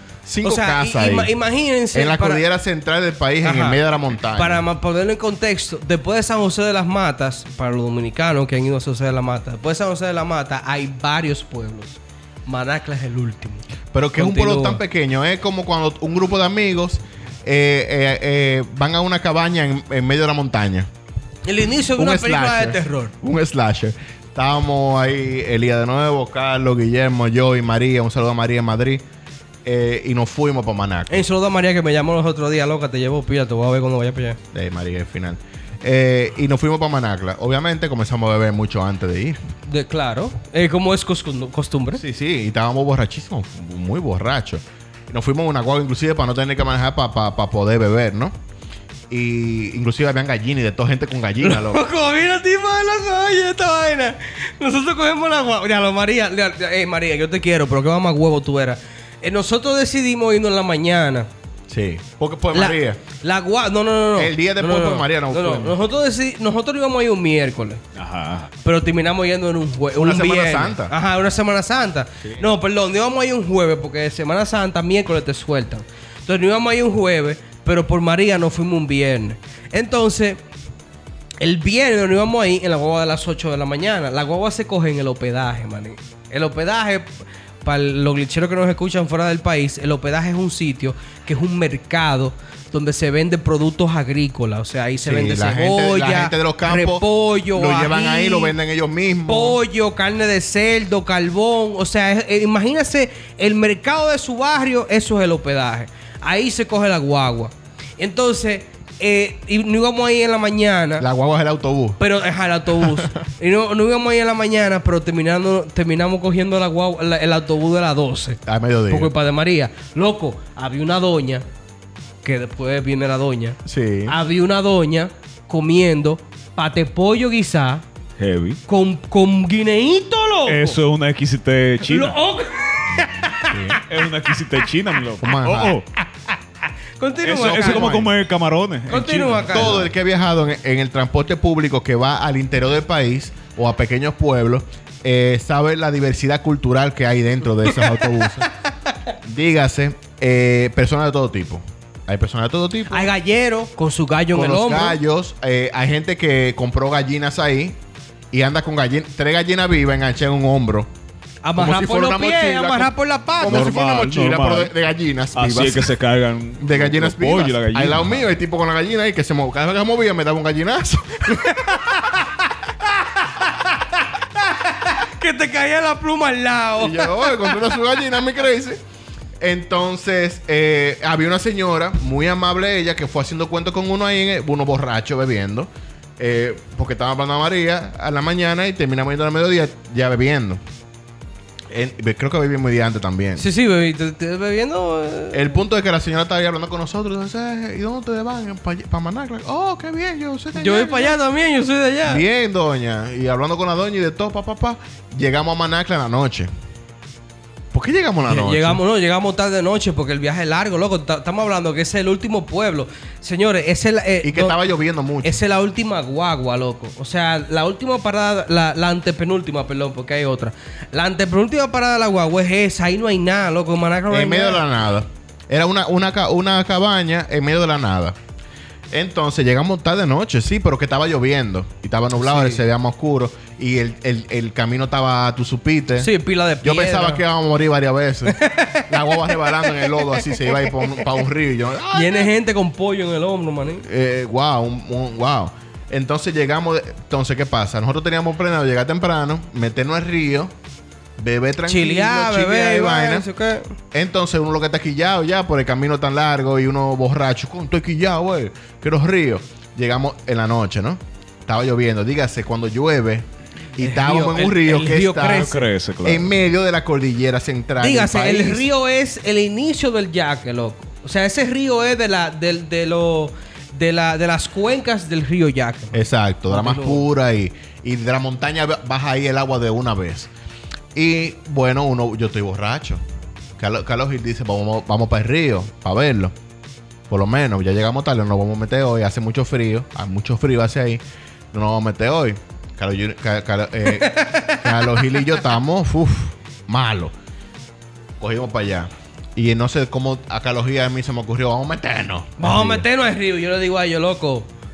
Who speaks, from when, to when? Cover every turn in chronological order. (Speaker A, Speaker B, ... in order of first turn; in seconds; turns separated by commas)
Speaker A: 0.2-1.3, Speaker B: 0.4-2.4, Speaker A: 1.9-4.6, Speaker B: 3.4-3.8, Speaker B: 4.3-14.8, Speaker A: 13.9-20.9, Speaker B: 21.4-23.1, Speaker A: 22.0-29.0, Speaker A: 29.6-31.2, Speaker B: 31.1-34.4, Speaker A: 34.5-39.4, Speaker B: 39.7-42.0, Speaker A: 42.0-48.4, Speaker A: 49.1-51.8, Speaker B: 51.4-61.3, Speaker A: 61.7-63.0, Speaker B: 62.5-67.8, Speaker A: 64.2-65.8, Speaker C: 68.0-68.5, Speaker B: 68.6-80.4, Speaker A: 69.9-70.9, Speaker B: 81.4-98.5, Speaker A: 95.0-99.6, Speaker B: 99.3-111.1, Speaker A: 111.0-112.0, Speaker B: 112.0-121.5, Speaker A: 118.5-119.1, Speaker B: 122.2-127.8, Speaker A: 123.7-124.2, Speaker C: 128.2-128.6, Speaker B: 128.7-130.8, Speaker C: 130.5-132.2, Speaker B: 131.8-133.8, Speaker A: 133.0-133.8, Speaker C: 133.8-135.9, Speaker A: 135.2-135.8, Speaker B: 137.0-137.9, Speaker C: 137.2-139.9, Speaker A: 137.3-138.1, Speaker B: 138.9-139.8, Speaker A: 139.5-148.5, Speaker B: 147.7-147.9, Speaker A: 149.2-153.1, Speaker B: 152.9-155.0, Speaker A: 154.3-157.8, Speaker A: 158.3-160.9, Speaker B: 161.4-163.8, Speaker A: 161.6-165.9, Speaker C: 163.4-164.7, Speaker C: 165.3-168.2, Speaker A: 166.6-172.0, Speaker B: 171.4-172.3, Speaker B: 173.2-173.8, Speaker B: 174.4-177.7, Speaker A: 176.8-178.8, Speaker A: 179.4-190.6, Speaker A: 191.7-193.4, Speaker B: 193.4-195.6, Speaker A: 195.3-201.2, Speaker B: 200.5-202.2, Speaker A: 202.1-206.5, Speaker A: 207.7-208.8, Speaker B: 208.3-214.6, Speaker A: 214.2-215.3, Speaker B: 215.2-224.7, Speaker A: 224.1-228.2, Speaker A: 228.9-236.1, Speaker B: 232.2-232.6, Speaker B: 236.0-237.2, Speaker A: 236.6-242.3, Speaker B: 238.3-241.0, Speaker B: 241.9-243.8, Speaker A: 243.8-250.5, Speaker A: 251.2-253.3, Speaker B: 251.7-253.7, Speaker A: 253.9-268.7, Speaker B: 263.8-265.6, Speaker C: 265.4-266.3, Speaker B: 267.8-277.1, Speaker A: 275.9-280.3, Speaker A: 280.9-283.0, Speaker A: 283.6-286.4, Speaker A: 287.1-297.1, Speaker B: 293.9-295.2, Speaker A: 298.2-302.9, Speaker B: 302.4-304.5